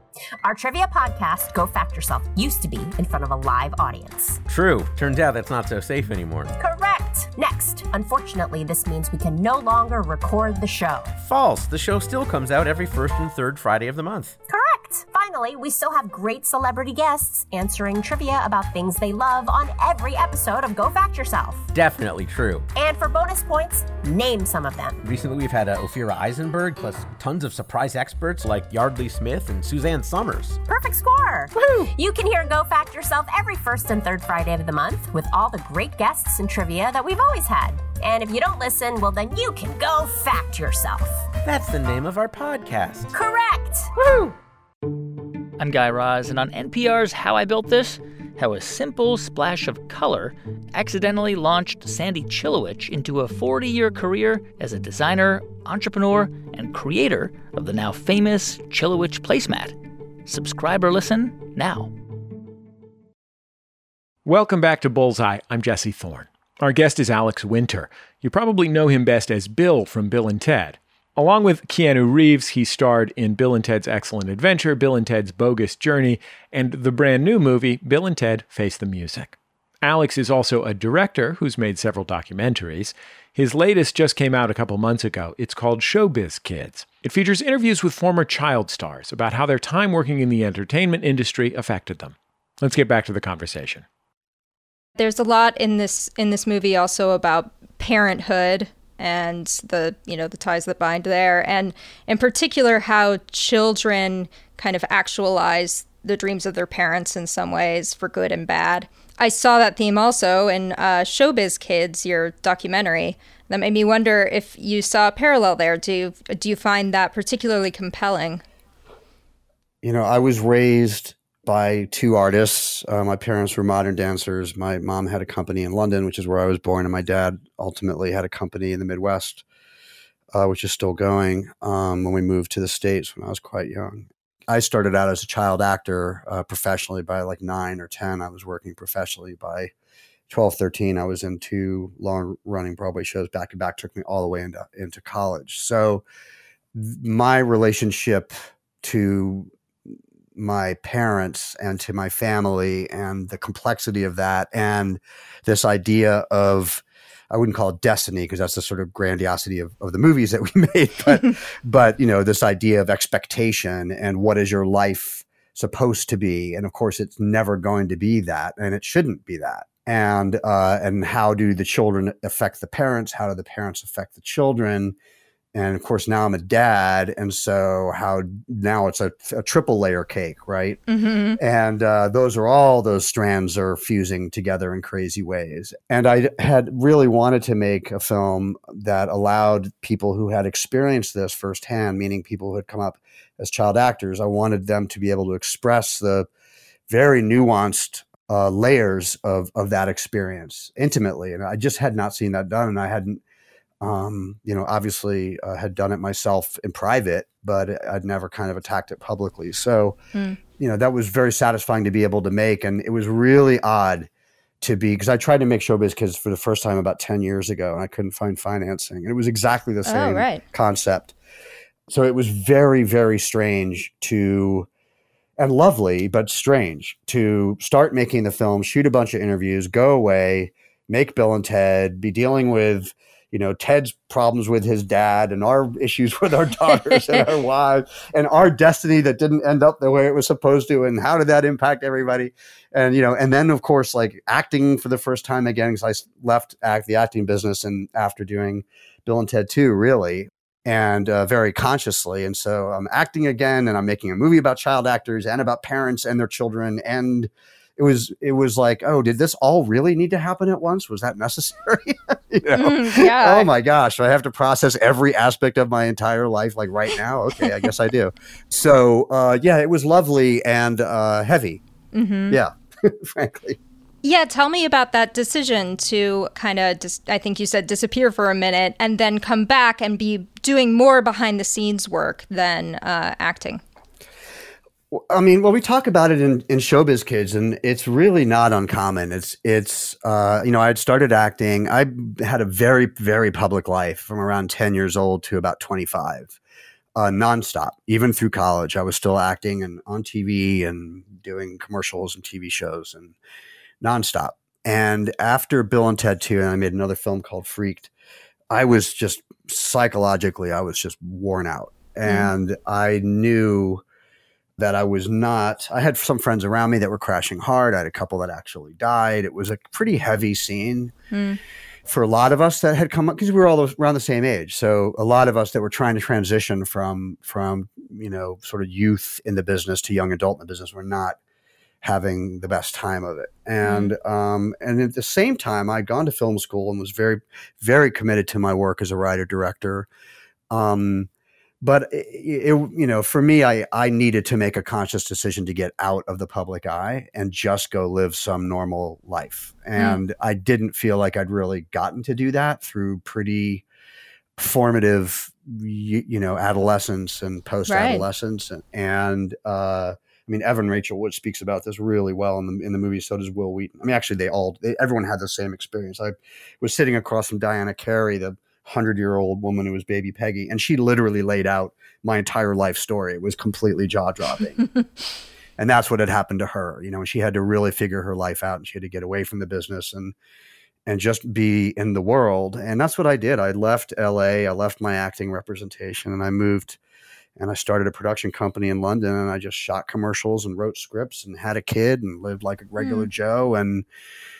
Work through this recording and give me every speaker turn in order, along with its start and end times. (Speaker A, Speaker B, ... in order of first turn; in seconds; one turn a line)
Speaker A: 0.4-4.4
Speaker B: 4.5-6.5
Speaker A: 6.6-11.1
Speaker B: 11.2-14.4
Speaker A: 14.5-21.7
Speaker B: 21.7-22.7
Speaker A: 22.7-25.0
Speaker B: 25.0-30.6
Speaker A: 30.6-41.3
Speaker B: 41.4-43.1
Speaker A: 43.1-43.9
Speaker B: 44.0-44.3
Speaker C: 45.6-61.9
Speaker D: 64.2-93.8
Speaker E: 95.0-118.4
Speaker F: 119.8-129.4
Speaker F: 130.3-139.7
Speaker F: 140.3-146.0
Speaker F: 146.7-149.5
Speaker F: 150.3-174.9
Speaker F: 175.5-180.8
Speaker E: 180.9-181.4
Speaker F: 181.4-196.3
Speaker F: 196.9-203.2
Speaker F: 203.8-210.0
Speaker F: 210.6-214.1
Speaker F: 214.6-221.1
Speaker E: 219.8-220.4
Speaker F: 221.9-224.7
Speaker F: 225.4-271.6
Speaker E: 262.5-263.5
Speaker E: 271.9-272.4
Speaker F: 272.3-273.6
Speaker E: 274.0-283.6
Speaker F: 284.9-296.4
Speaker F: 296.9-303.1
Speaker F: 303.8-307.9
Speaker F: 308.5-313.8
Speaker E: 312.1-312.3
Speaker F: 314.6-320.9
Speaker E: 321.1-321.4
Speaker F: 321.9-331.2
Speaker F: 331.8-339.9
Speaker E: 333.6-333.9
Speaker F: 340.5-341.1
Speaker F: 341.6-353.6
Speaker F: 354.4-374.6
Speaker E: 357.7-358.0
Speaker F: 375.6-380.1
Speaker F: 380.9-386.8
Speaker F: 387.4-393.9
Speaker E: 392.8-393.1